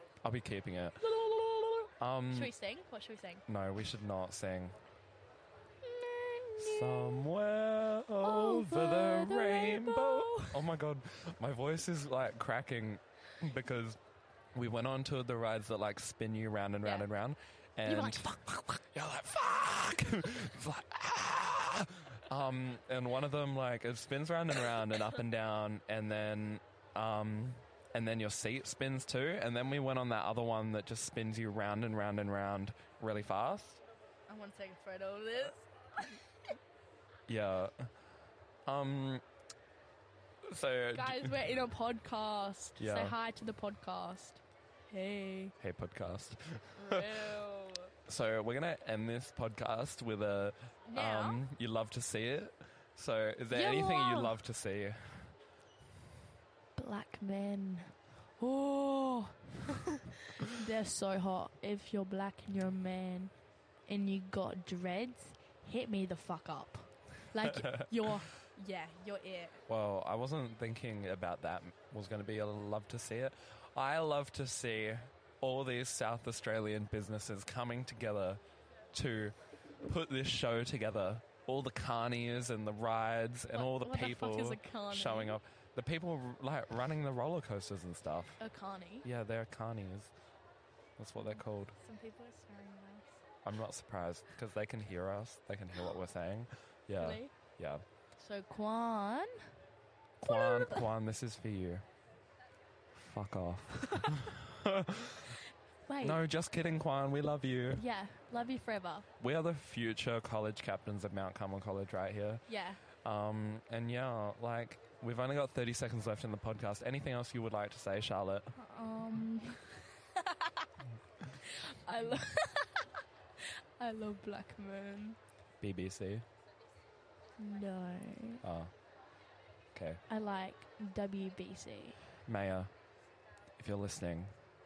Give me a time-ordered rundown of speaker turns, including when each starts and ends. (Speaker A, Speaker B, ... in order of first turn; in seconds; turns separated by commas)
Speaker A: 0.2-1.0, Speaker B: 1.0-3.4, Speaker A: 2.0-2.5, Speaker A: 3.5-4.8, Speaker B: 5.8-7.3, Speaker A: 6.6-14.0, Speaker B: 8.2-10.7, Speaker A: 14.5-33.8, Speaker B: 17.9-18.6, Speaker B: 34.3-36.2, Speaker A: 37.3-37.9, Speaker A: 38.6-39.2, Speaker A: 40.5-41.3, Speaker B: 40.9-45.5, Speaker A: 42.8-43.1, Speaker A: 45.6-47.0, Speaker B: 46.8-47.9, Speaker A: 48.1-55.4, Speaker B: 50.9-51.4, Speaker B: 53.5-54.3, Speaker B: 56.8-63.3, Speaker B: 63.9-69.6, Speaker A: 67.4-67.9, Speaker A: 69.7-78.4, Speaker A: 78.9-88.4, Speaker B: 83.5-85.4, Speaker B: 88.4-89.1, Speaker A: 89.0-90.1, Speaker A: 91.0-91.7, Speaker B: 91.2-93.2, Speaker A: 93.4-97.8, Speaker B: 97.0-97.3, Speaker B: 98.2-99.3, Speaker A: 100.2-101.8, Speaker B: 100.2-100.9, Speaker A: 103.0-105.4, Speaker B: 105.9-106.2, Speaker A: 106.0-107.8, Speaker B: 107.7-109.0, Speaker A: 109.2-112.5, Speaker B: 112.5-112.8, Speaker A: 113.0-118.5, Speaker B: 118.5-120.7, Speaker B: 121.3-125.2, Speaker A: 125.6-126.2, Speaker B: 127.4-128.4, Speaker A: 128.4-128.7, Speaker A: 129.7-130.0, Speaker B: 130.1-132.0, Speaker A: 132.2-132.7, Speaker A: 133.6-134.3